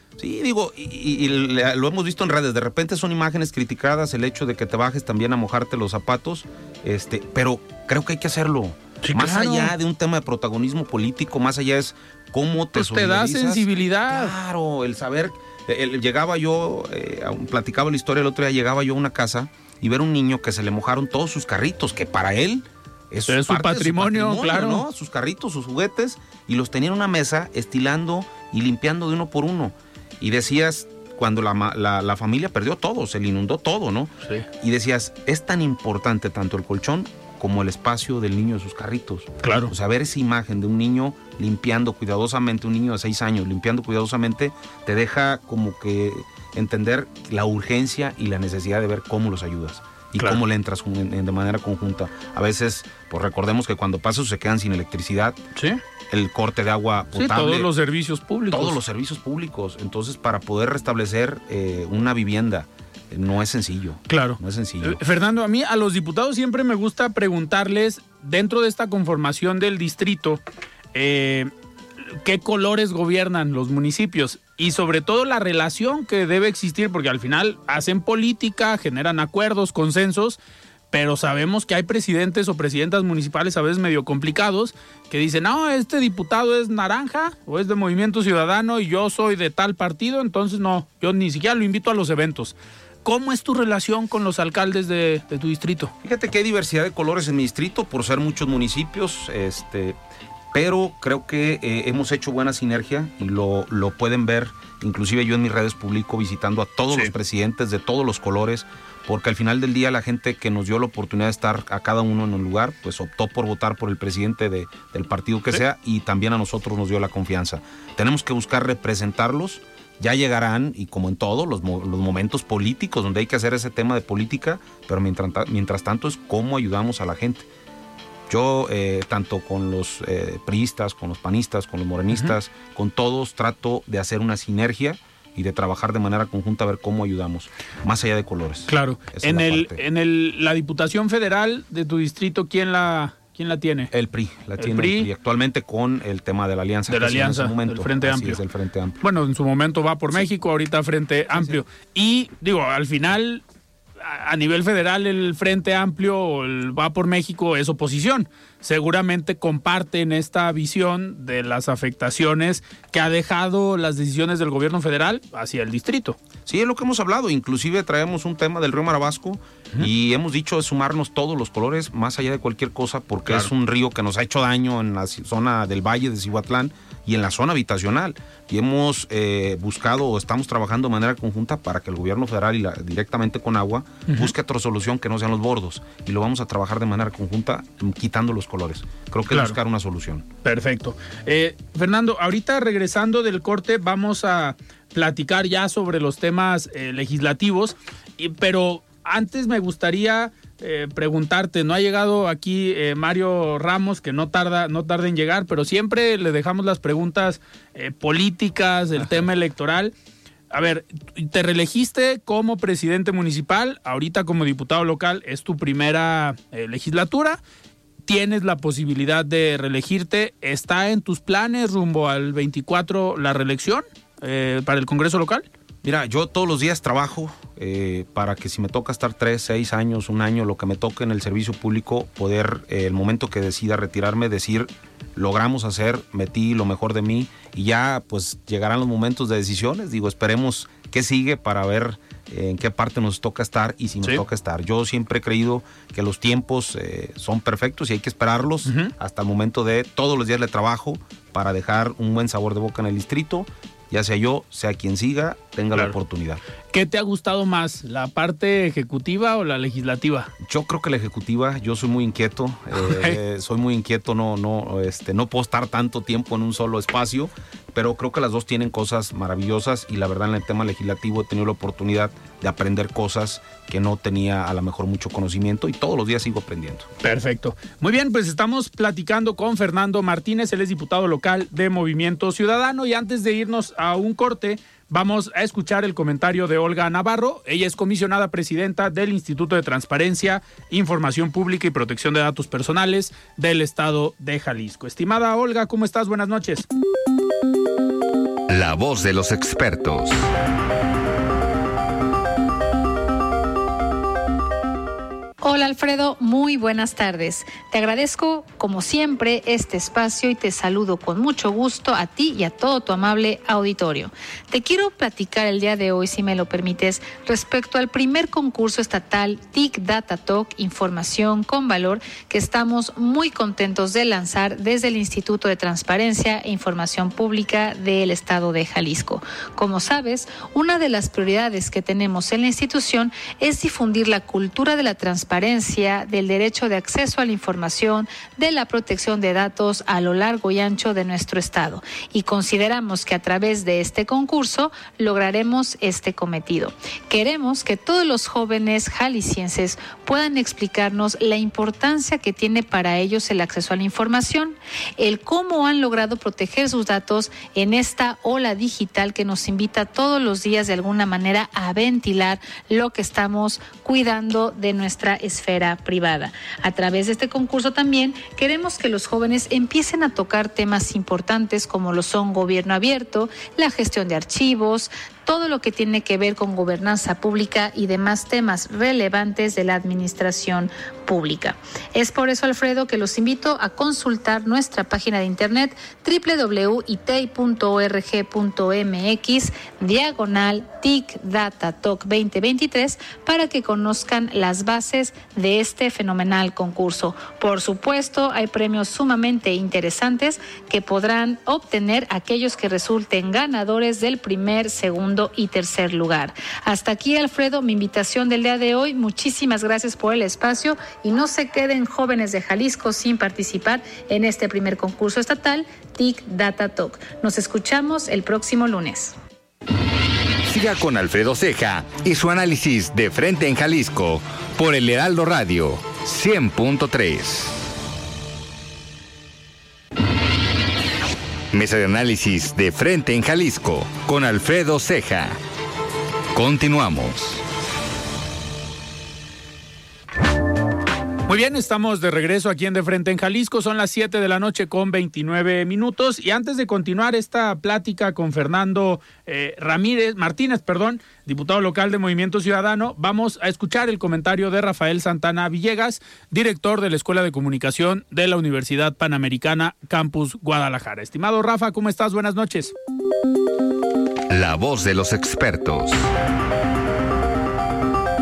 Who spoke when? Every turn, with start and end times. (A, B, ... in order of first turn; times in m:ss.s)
0:00.2-0:55.4 A
0:09.0-0:09.7 B
0:12.7-0:14.3 B
0:23.3-0:24.8 B
0:39.4-0:39.7 B
0:55.5-0:55.8 B
0:56.1-0:57.7 A
0:57.1-0:58.8 B
0:58.5-1:05.0 A
1:04.1-1:10.4 B
1:10.9-1:11.5 B
1:12.0-1:20.4 B
1:20.9-1:35.9 B
1:36.0-1:40.0 A
1:40.5-2:07.5 A
2:08.3-2:19.8 A
2:18.7-2:23.9 B
2:23.9-2:29.0 A
2:24.6-2:25.1 B
2:26.9-2:28.4 B
2:29.0-2:33.4 B
2:31.3-2:31.6 A
2:34.0-2:46.2 B
2:46.4-3:10.2 A
3:04.1-3:04.3 B
3:09.3-3:09.6 B
3:10.4-3:29.9 B
3:30.5-3:37.4 B
3:38.0-3:45.4 B
3:45.8-4:16.4 A
4:08.6-4:08.9 B
4:16.7-4:20.3 B
4:20.4-4:36.9 A
4:22.8-4:23.2 B
4:37.0-4:56.6 B
4:58.5-5:00.2 C
5:05.4-6:59.2 D
7:00.4-7:07.6 C
7:11.5-7:15.4 C
7:16.3-7:17.4 C
7:21.2-7:42.7 B
7:44.3-7:46.0 C